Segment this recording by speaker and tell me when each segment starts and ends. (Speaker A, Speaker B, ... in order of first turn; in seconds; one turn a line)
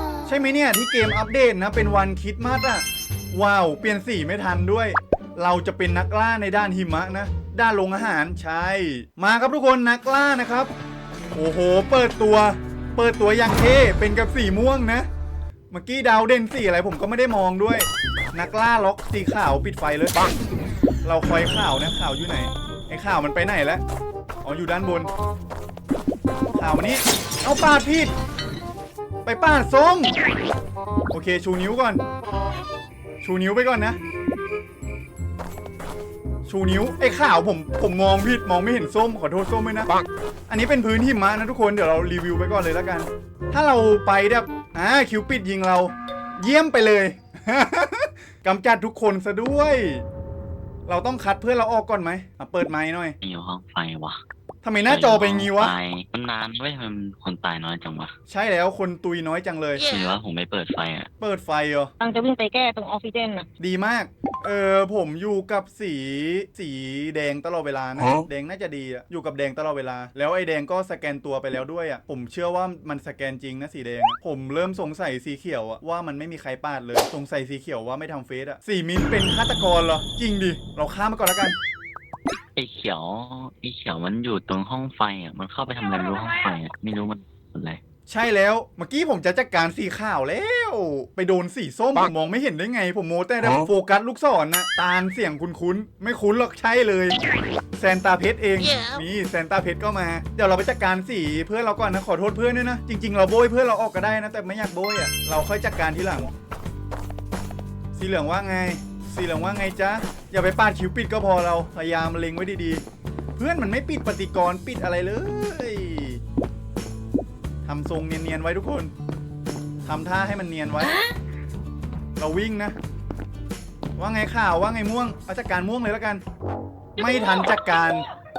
Speaker A: 0.2-10.7
Speaker A: 11.3-15.1
Speaker A: 15.7-20.2
Speaker A: 21.0-23.8
Speaker A: 24.4-25.1
Speaker A: 26.5-28.1
Speaker A: 29.2-30.1
Speaker A: 31.1-32.0
Speaker A: 33.2-34.0
Speaker A: 36.5-40.0
Speaker A: 40.5-50.0
Speaker A: 50.9-53.1
Speaker B: 53.2-54.2
Speaker A: 54.6-55.8
Speaker B: 54.9-58.1
Speaker A: 58.3-59.8
Speaker B: 59.9-61.1
Speaker A: 61.2-61.9
Speaker C: 62.0-63.5
Speaker A: 63.6-81.6
Speaker B: 82.5-87.8
Speaker C: 85.9-86.5
Speaker A: 88.1-97.2
Speaker A: 97.8-106.3
Speaker A: 107.9-112.8
Speaker A: 113.4-116.2
Speaker A: 117.6-118.9
Speaker A: 119.8-121.0
Speaker A: 122.2-122.8
Speaker A: 124.0-126.2
Speaker A: 127.0-128.0
Speaker C: 127.0-127.8